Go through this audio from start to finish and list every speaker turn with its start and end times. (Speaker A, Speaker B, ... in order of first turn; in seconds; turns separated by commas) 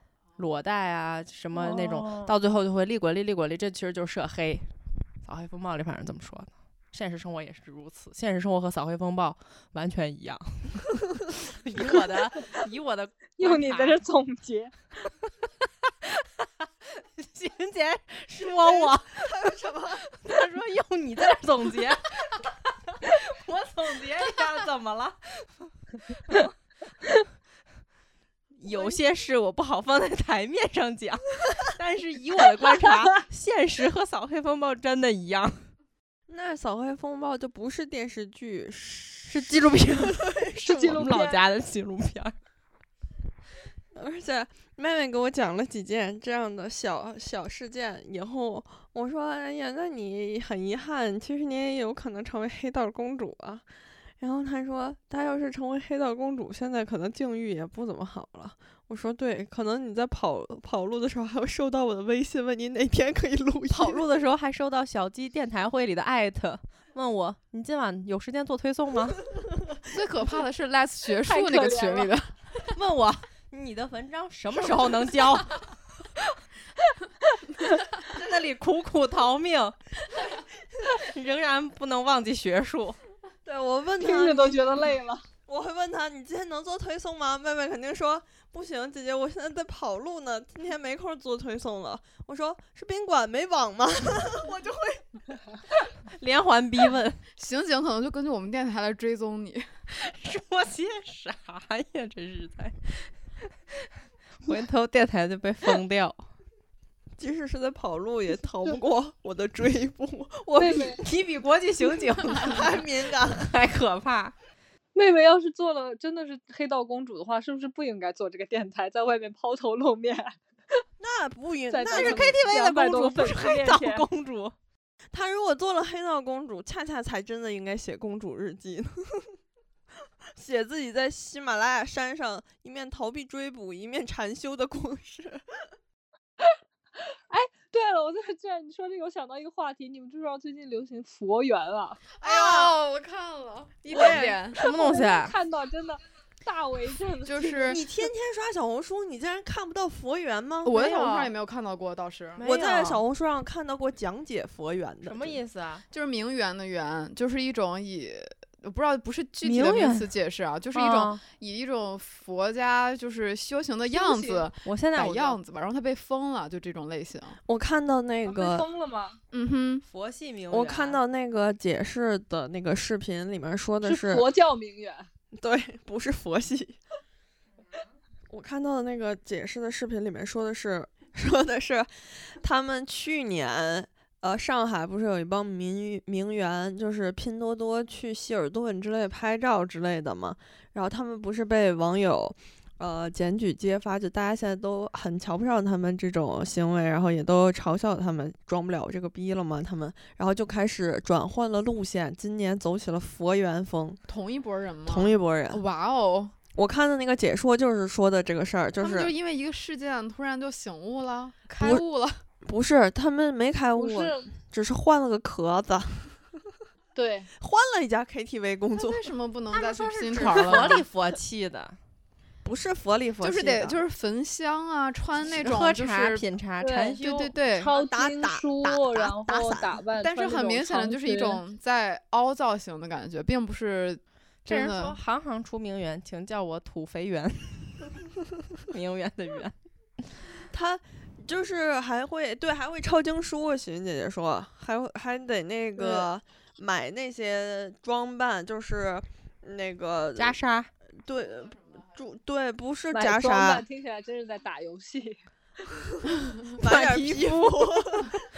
Speaker A: 0.4-4.7, Speaker A: 5.2-14.0, Speaker B: 13.4-14.7, Speaker A: 16.0-19.3, Speaker C: 18.5-20.0, Speaker A: 20.1-26.5, Speaker A: 28.6-35.6, Speaker C: 36.3-41.1, Speaker A: 39.3-42.3, Speaker B: 40.6-41.4, Speaker C: 43.9-53.6, Speaker C: 54.2-64.0, Speaker A: 63.7-69.2, Speaker D: 69.9-72.3, Speaker B: 71.3-72.1, Speaker A: 72.7-75.6, Speaker C: 74.6-74.9, Speaker A: 78.0-79.8, Speaker A: 80.9-83.0, Speaker C: 83.5-84.7, Speaker B: 84.0-85.2, Speaker C: 85.5-95.2, Speaker A: 96.2-97.2, Speaker D: 97.4-99.6, Speaker A: 99.9-103.1, Speaker A: 104.4-106.3, Speaker C: 107.2-111.0, Speaker B: 110.5-111.0, Speaker A: 111.0-114.3, Speaker C: 112.3-113.5, Speaker B: 114.9-120.8, Speaker C: 121.0-122.4, Speaker B: 121.7-124.0, Speaker A: 121.9-124.5, Speaker C: 125.1-129.4, Speaker C: 130.3-135.4, Speaker B: 137.0-142.1, Speaker D: 142.2-144.6, Speaker C: 142.2-142.8, Speaker C: 143.9-144.4, Speaker A: 143.9-145.3, Speaker B: 144.6-147.8, Speaker D: 147.3-147.8, Speaker C: 147.7-150.8, Speaker D: 150.6-152.4, Speaker A: 150.7-151.3, Speaker A: 152.4-153.0, Speaker C: 152.4-155.4, Speaker A: 155.1-155.8, Speaker D: 155.9-167.4, Speaker A: 159.4-160.1, Speaker A: 160.7-161.2, Speaker B: 163.9-164.5, Speaker A: 164.6-165.4, Speaker C: 167.5-168.7, Speaker B: 168.2-169.2, Speaker D: 169.3-169.8, Speaker A: 169.9-171.0, Speaker C: 170.5-174.3, Speaker B: 173.8-175.1, Speaker C: 175.3-176.8, Speaker C: 178.3-204.0, Speaker D: 204.1-206.3, Speaker C: 204.9-205.6, Speaker C: 206.5-209.1, Speaker D: 208.8-212.2, Speaker C: 212.4-216.4, Speaker B: 213.8-214.3, Speaker B: 216.9-217.3, Speaker C: 217.4-219.0, Speaker D: 218.7-220.8, Speaker A: 219.5-221.8, Speaker C: 222.4-223.8, Speaker D: 223.2-226.2, Speaker A: 225.2-227.3, Speaker B: 226.6-227.0, Speaker D: 227.0-227.7, Speaker B: 227.6-231.4, Speaker C: 227.7-229.8, Speaker D: 230.0-235.0, Speaker A: 234.5-237.8, Speaker A: 238.7-239.5, Speaker C: 240.5-250.4, Speaker B: 245.8-246.1, Speaker A: 250.2-250.7, Speaker C: 251.0-253.6, Speaker B: 252.9-255.2, Speaker C: 256.6-258.2, Speaker A: 256.6-257.8